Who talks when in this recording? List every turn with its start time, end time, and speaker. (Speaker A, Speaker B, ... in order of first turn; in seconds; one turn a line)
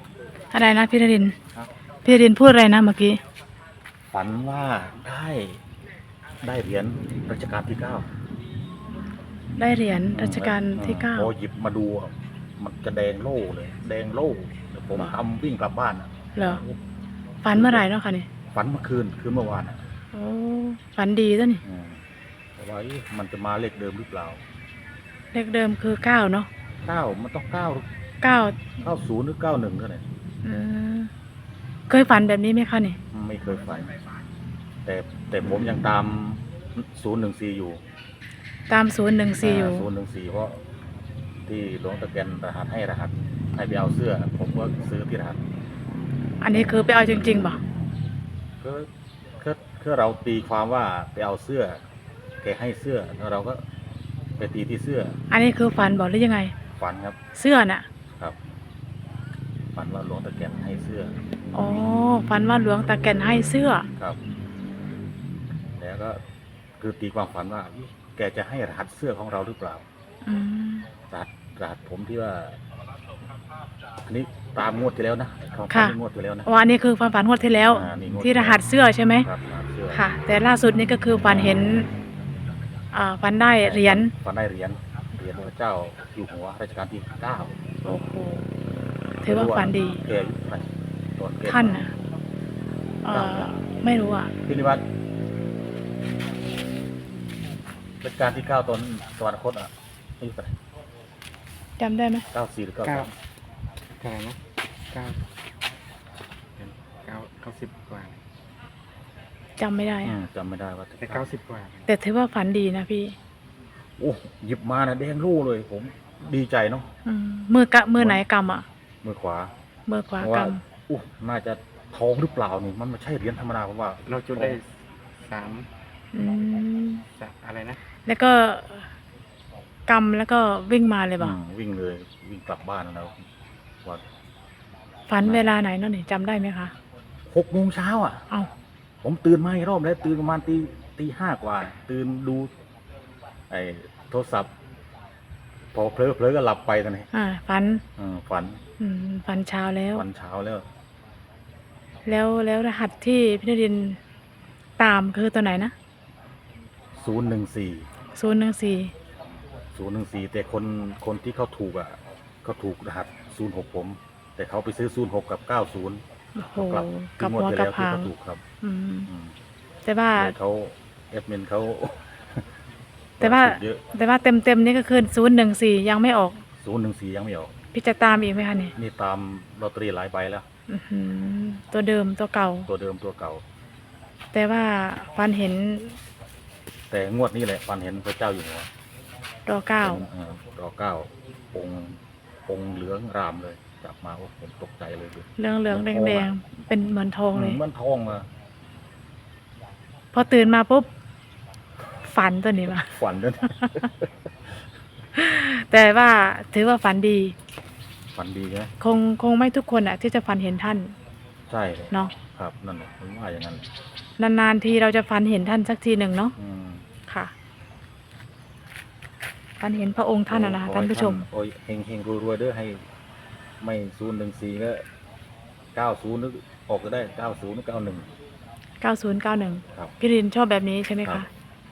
Speaker A: 0.5-1.4
Speaker A: 2.0-3.2
Speaker B: 4.1-5.6
Speaker B: 6.4-8.1
Speaker A: 9.5-11.3
Speaker B: 10.1-16.8
Speaker A: 16.3-16.6
Speaker A: 17.4-18.3
Speaker B: 17.5-17.8
Speaker B: 18.5-19.8
Speaker A: 20.1-21.6
Speaker B: 21.6-22.0
Speaker B: 22.6-24.4
Speaker A: 25.3-26.5
Speaker B: 26.8-27.9
Speaker A: 28.2-28.6
Speaker B: 28.8-30.0
Speaker A: 30.4-31.1
Speaker A: 31.9-33.0
Speaker B: 33.1-33.9
Speaker B: 34.8-37.8
Speaker A: 38.7-39.9
Speaker B: 39.4-40.6
Speaker B: 41.5-45.4
Speaker A: 46.4-47.6
Speaker B: 48.6-51.8
Speaker B: 52.4-53.6
Speaker B: 54.4-55.1
Speaker A: 55.3-56.5
Speaker B: 56.8-57.2
Speaker A: 57.3-57.9
Speaker B: 59.7-61.1
Speaker A: 61.5-63.9
Speaker B: 65.8-66.2
Speaker B: 66.8-69.8
Speaker A: 70.2-70.9
Speaker B: 71.1-72.6
Speaker B: 74.0-76.5
Speaker A: 75.7-79.3
Speaker B: 77.7-78.6
Speaker B: 79.2-80.0
Speaker A: 79.9-81.9
Speaker A: 82.9-84.1
Speaker B: 83.6-87.6
Speaker A: 87.8-88.5
Speaker A: 89.2-90.0
Speaker B: 89.2-91.9
Speaker A: 91.4-91.9
Speaker A: 93.0-94.3
Speaker B: 93.1-93.5
Speaker B: 94.5-94.8
Speaker B: 98.0-100.5
Speaker A: 101.8-102.2
Speaker B: 102.3-103.1
Speaker C: 102.8-103.1
Speaker C: 104.0-104.4
Speaker C: 104.9-105.2
Speaker C: 106.6-108.2
Speaker A: 109.6-110.1
Speaker B: 110.0-111.3
Speaker C: 111.0-111.8
Speaker A: 111.9-113.2
Speaker B: 114.0-116.9
Speaker A: 117.0-118.6
Speaker B: 118.0-118.2
Speaker B: 119.0-119.5
Speaker A: 119.9-120.6
Speaker B: 120.2-124.6
Speaker C: 124.0-125.7
Speaker A: 126.1-127.0
Speaker C: 127.1-127.8
Speaker A: 128.1-128.9
Speaker A: 129.9-131.3
Speaker B: 131.2-133.1
Speaker A: 135.1-136.7
Speaker B: 135.2-135.5
Speaker B: 137.3-138.2
Speaker B: 139.0-142.5
Speaker B: 143.5-144.5
Speaker B: 145.7-147.1
Speaker A: 147.1-147.8
Speaker B: 148.0-148.6
Speaker A: 148.8-150.0
Speaker B: 149.9-150.7
Speaker A: 152.0-154.0
Speaker A: 154.8-155.7
Speaker B: 156.9-157.9
Speaker A: 158.1-158.9
Speaker B: 159.7-166.0
Speaker A: 166.3-169.1
Speaker B: 166.6-168.4
Speaker B: 169.1-169.3
Speaker A: 169.8-170.3
Speaker B: 170.1-172.4
Speaker B: 173.2-173.8
Speaker A: 173.2-176.4
Speaker B: 176.6-177.5
Speaker A: 177.7-178.7
Speaker B: 178.8-180.4
Speaker A: 180.7-182.7
Speaker B: 182.7-183.4
Speaker A: 184.3-186.0
Speaker B: 186.9-188.7
Speaker A: 189.4-190.0
Speaker B: 189.8-196.3
Speaker A: 195.4-197.6
Speaker B: 197.3-198.3
Speaker A: 200.1-200.9
Speaker A: 202.0-202.9
Speaker B: 202.7-203.9
Speaker A: 203.5-203.9
Speaker A: 205.1-207.3
Speaker B: 208.1-208.7
Speaker A: 208.8-210.9
Speaker B: 211.5-213.7
Speaker A: 211.9-212.2
Speaker A: 214.2-216.3
Speaker B: 216.4-216.8
Speaker A: 217.1-217.3
Speaker A: 219.6-221.2
Speaker B: 220.3-222.8
Speaker B: 223.6-224.8
Speaker B: 225.7-228.1
Speaker A: 228.8-231.3